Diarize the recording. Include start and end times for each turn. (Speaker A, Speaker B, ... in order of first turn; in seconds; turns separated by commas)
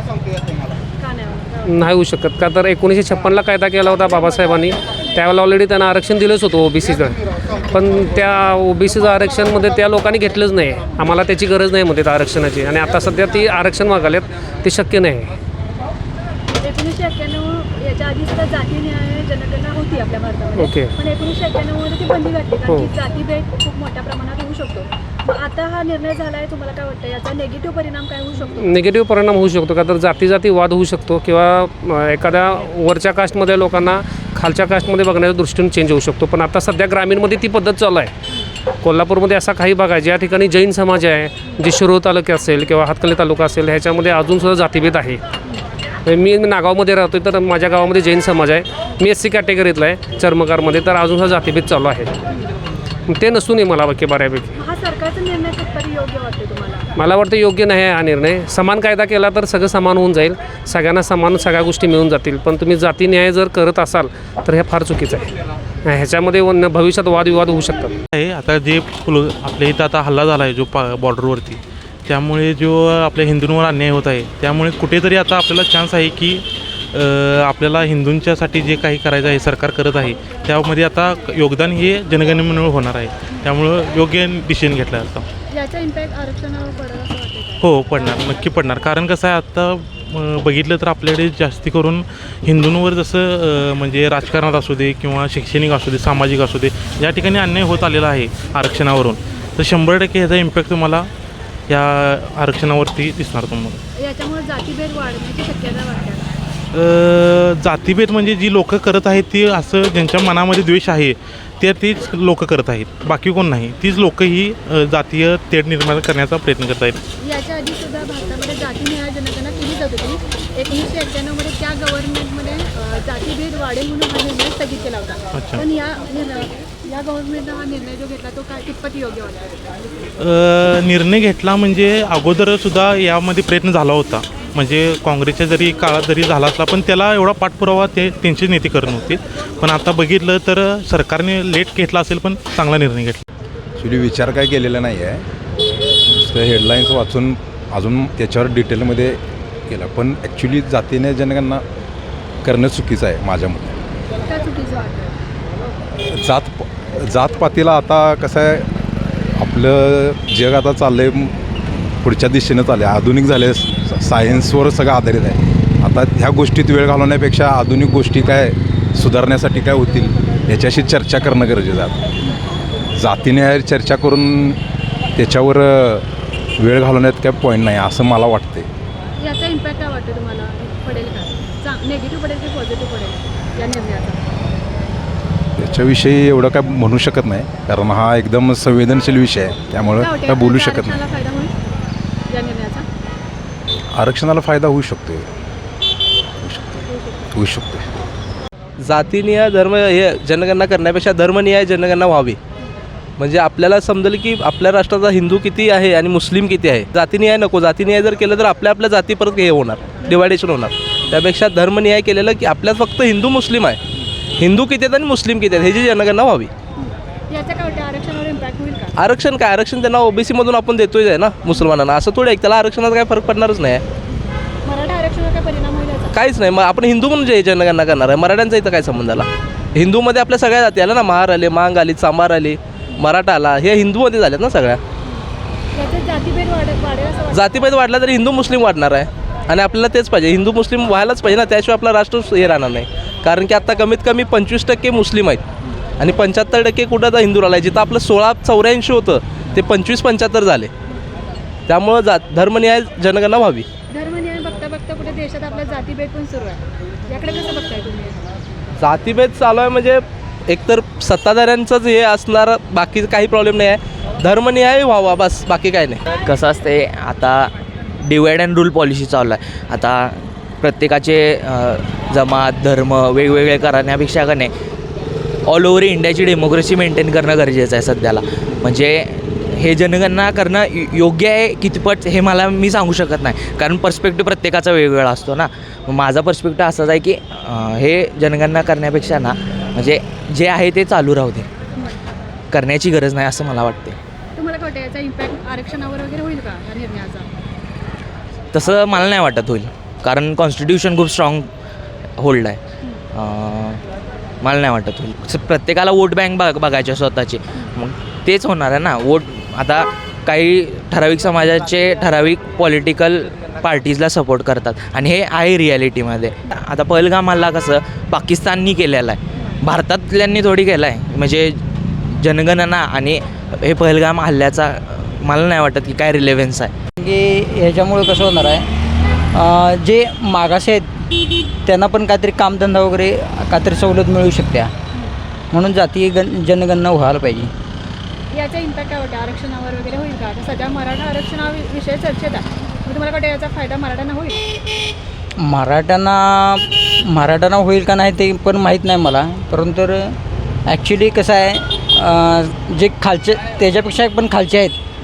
Speaker A: 1.0-1.6, Speaker B: 1.6-15.3, Speaker A: 16.6-28.5, Speaker B: 20.6-20.9, Speaker B: 28.5-38.1, Speaker B: 38.8-45.2, Speaker B: 46.1-52.1, Speaker B: 53.1-54.5, Speaker A: 54.6-56.9, Speaker B: 56.9-65.2, Speaker B: 65.8-67.9, Speaker C: 68.1-85.2, Speaker A: 85.5-88.2, Speaker C: 87.6-101.1, Speaker C: 101.7-103.8, Speaker A: 104.0-106.2, Speaker C: 106.7-117.0, Speaker A: 117.2-129.5, Speaker C: 125.3-125.6, Speaker C: 130.2-143.2, Speaker D: 143.8-145.2, Speaker D: 146.1-151.6, Speaker D: 152.4-153.8, Speaker A: 154.3-155.1, Speaker D: 156.1-161.4, Speaker D: 161.9-172.0, Speaker D: 172.9-174.6, Speaker D: 175.1-178.7, Speaker A: 179.2-184.2, Speaker D: 185.6-191.0, Speaker A: 190.0-191.5, Speaker A: 192.3-192.8, Speaker D: 193.9-195.3, Speaker D: 196.4-197.9, Speaker E: 198.8-202.4, Speaker E: 203.2-213.8, Speaker E: 214.4-216.5, Speaker A: 216.8-218.9, Speaker E: 218.9-223.8, Speaker A: 224.6-226.1, Speaker E: 226.1-234.8, Speaker A: 235.8-237.7, Speaker E: 237.3-245.4, Speaker E: 246.0-250.7, Speaker E: 251.7-253.7, Speaker A: 253.9-258.1, Speaker E: 258.8-266.0, Speaker F: 266.2-267.5, Speaker F: 268.0-274.5, Speaker F: 275.4-291.5, Speaker F: 292.5-293.9, Speaker A: 294.4-297.3, Speaker F: 298.5-301.5, Speaker F: 302.2-302.6, Speaker F: 303.1-303.8, Speaker F: 304.4-326.7, Speaker G: 327.0-328.7, Speaker G: 329.3-330.9, Speaker G: 331.6-334.7, Speaker G: 335.5-337.5, Speaker A: 338.3-344.4, Speaker G: 345.4-354.8